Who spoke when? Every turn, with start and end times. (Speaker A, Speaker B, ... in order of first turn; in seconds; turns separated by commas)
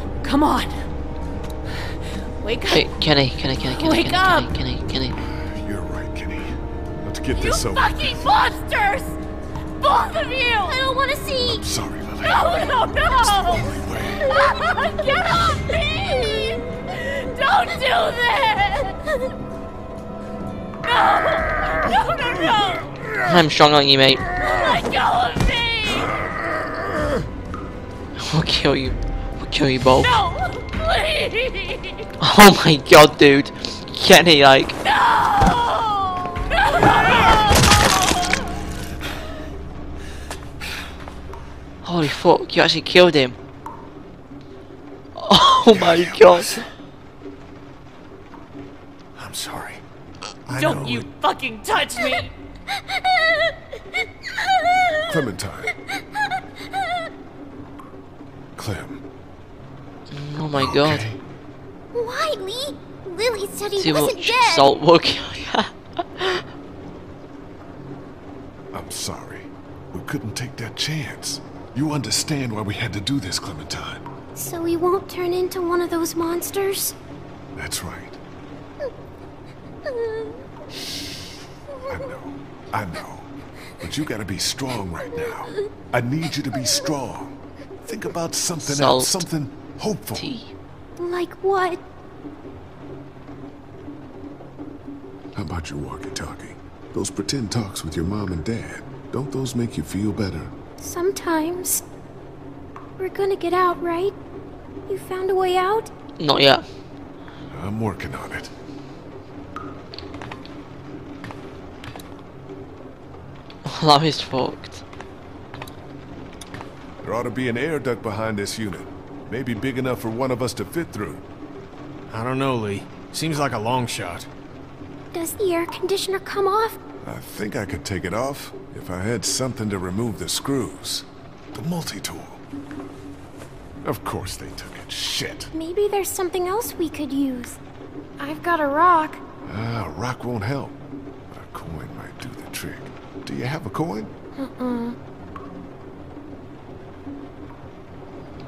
Speaker A: 0.2-0.8, Speaker A: 2.4-2.9, Speaker B: 2.7-5.2, Speaker A: 3.7-4.5, Speaker C: 5.3-8.4, Speaker A: 7.3-9.1, Speaker A: 9.8-10.8, Speaker D: 10.6-11.6, Speaker C: 11.4-14.3, Speaker A: 12.4-13.5, Speaker A: 14.4-16.5, Speaker A: 17.4-18.5, Speaker A: 22.1-22.6, Speaker B: 23.2-24.3, Speaker B: 28.2-30.2, Speaker B: 32.2-34.8, Speaker B: 41.8-43.4, Speaker B: 45.2-46.6, Speaker E: 45.7-46.7, Speaker E: 49.1-49.8, Speaker E: 50.5-51.1, Speaker C: 50.5-50.9, Speaker A: 50.5-52.3, Speaker C: 55.0-55.7, Speaker C: 58.5-59.0, Speaker B: 60.1-61.1, Speaker C: 60.4-61.2, Speaker D: 61.9-64.7, Speaker B: 63.8-66.4, Speaker C: 68.7-74.0, Speaker D: 74.3-77.0, Speaker C: 77.5-78.2, Speaker D: 79.8-80.4, Speaker C: 80.7-83.3, Speaker C: 83.8-87.3, Speaker C: 87.8-90.3, Speaker B: 88.6-89.2, Speaker B: 90.1-90.5, Speaker D: 91.0-91.8, Speaker C: 95.3-100.5, Speaker D: 100.8-101.8, Speaker D: 103.0-104.2, Speaker D: 104.9-105.9, Speaker B: 106.2-106.6, Speaker C: 107.5-108.5, Speaker B: 113.6-114.8, Speaker C: 117.0-121.2, Speaker E: 122.1-124.3, Speaker D: 125.1-126.8, Speaker C: 127.0-132.4, Speaker C: 133.8-135.5, Speaker D: 135.5-137.6, Speaker D: 138.2-139.2, Speaker C: 139.4-140.8, Speaker C: 141.3-144.1, Speaker D: 144.3-145.0